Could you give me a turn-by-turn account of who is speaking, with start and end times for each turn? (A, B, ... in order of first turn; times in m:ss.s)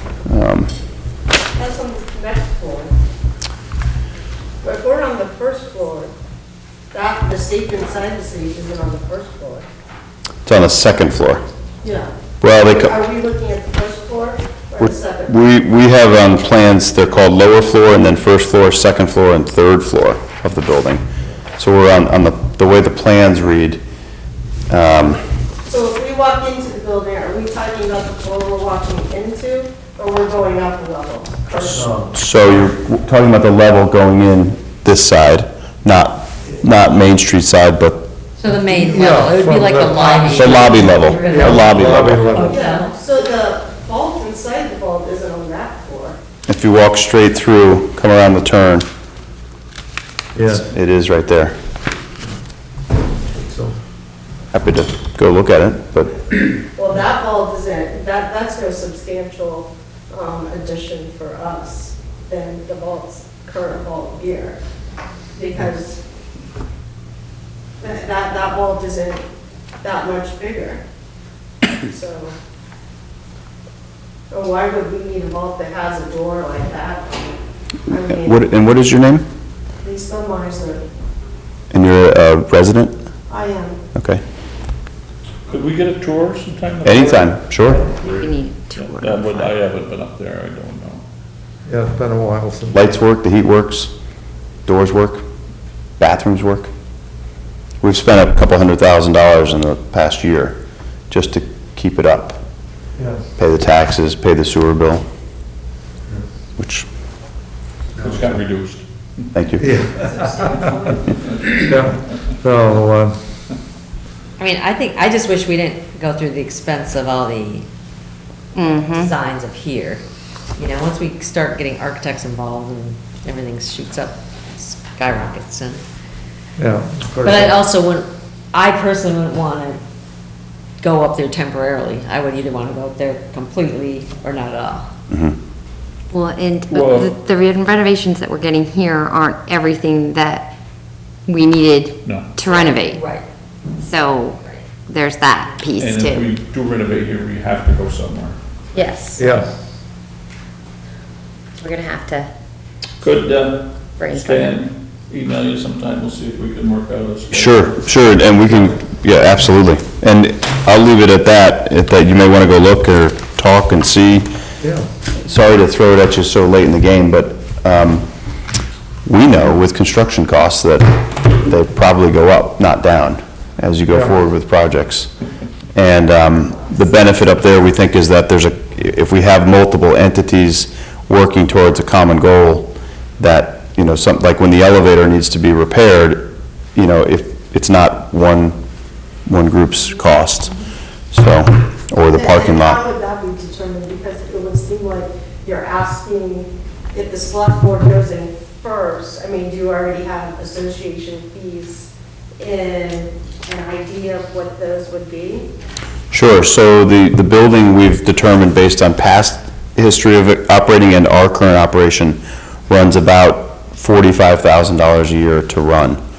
0:00.3-0:00.7 A
0:01.6-0:02.9 B
0:04.6-0:06.1 B
0:06.9-0:09.6 B
0:10.5-0:11.4 A
0:11.8-0:12.1 B
0:12.4-0:12.9 A
0:12.6-0:15.4 B
0:14.8-0:21.0 A
0:21.6-0:23.8 A
0:24.7-0:25.2 A
0:25.7-0:31.9 B
0:31.6-0:32.1 C
0:32.1-0:38.1 A
0:38.4-0:43.0 D
0:38.7-0:42.6 C
0:40.3-0:42.4 A
0:42.4-0:46.2 B
0:46.5-0:48.9 A
0:50.4-0:50.7 C
0:50.5-0:51.6 A
0:53.3-0:53.8 C
0:54.5-0:56.3 A
0:56.8-1:04.6 B
1:05.4-1:06.0 B
1:07.8-1:09.2 B
1:09.8-1:10.8 B
1:11.8-1:12.3 B
1:14.3-1:18.4 B
1:18.1-1:19.3 A
1:19.8-1:20.8 B
1:21.7-1:23.0 A
1:23.3-1:23.8 B
1:23.9-1:24.2 A
1:25.5-1:31.0 E
1:26.8-1:27.8 A
1:28.2-1:29.5 F
1:31.7-1:32.8 C
1:32.7-1:33.9 A
1:34.7-1:35.2 A
1:36.0-1:36.7 A
1:37.8-1:40.6 A
1:41.1-1:42.4 A
1:43.0-1:43.3 C
1:43.4-1:45.0 A
1:46.6-1:46.9 A
1:48.0-1:49.2 E
1:49.3-1:49.8 A
1:49.6-1:50.8 C
1:50.2-1:51.0 B
1:51.6-1:53.2 C
1:54.4-1:57.7 D
1:58.6-1:59.1 F
1:58.6-2:00.0 D
2:00.6-2:05.8 D
2:06.6-2:07.6 C
2:07.2-2:09.8 D
2:10.8-2:14.9 D
2:15.1-2:15.4 A
2:16.1-2:20.5 F
2:16.7-2:17.2 E
2:21.3-2:23.0 F
2:22.0-2:22.3 E
2:22.4-2:23.2 D
2:23.8-2:26.3 F
2:24.4-2:24.7 D
2:25.8-2:28.4 E
2:28.7-2:29.2 F
2:29.2-2:29.6 C
2:31.6-2:32.3 F
2:33.0-2:37.9 E
2:34.0-2:34.5 F
2:37.3-2:44.3 A
2:44.6-2:44.9 C
2:45.2-2:48.1 A
2:49.1-2:55.1 A
2:55.8-3:08.6 A
3:09.3-3:10.6 A
3:11.1-3:12.8 A
3:12.1-3:25.5 B
3:26.1-3:36.0 A